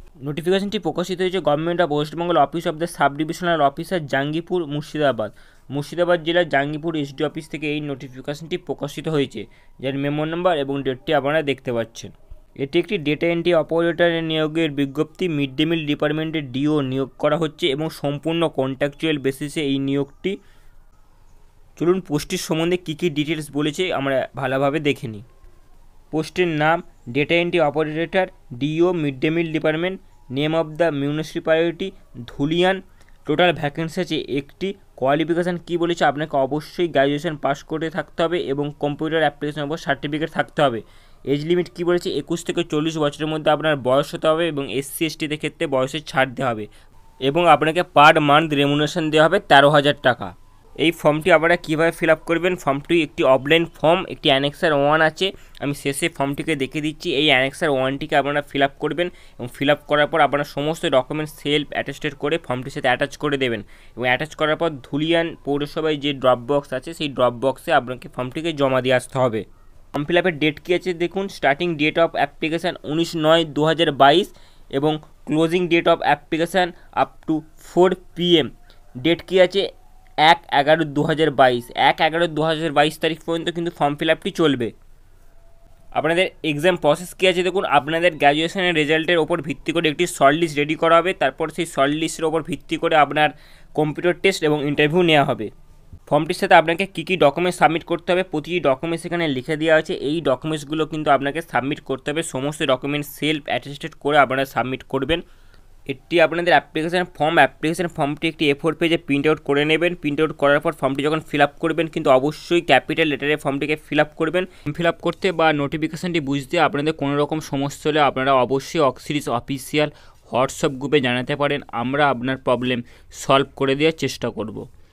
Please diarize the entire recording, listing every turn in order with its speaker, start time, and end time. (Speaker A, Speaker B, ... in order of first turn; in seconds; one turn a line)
Speaker A: 0.2-20.4
Speaker A: 21.8-25.2
Speaker A: 26.1-46.7
Speaker A: 47.3-78.5
Speaker A: 79.0-79.7
Speaker A: 80.2-84.7
Speaker A: 86.0-95.5
Speaker A: 96.1-105.2
Speaker A: 105.9-124.7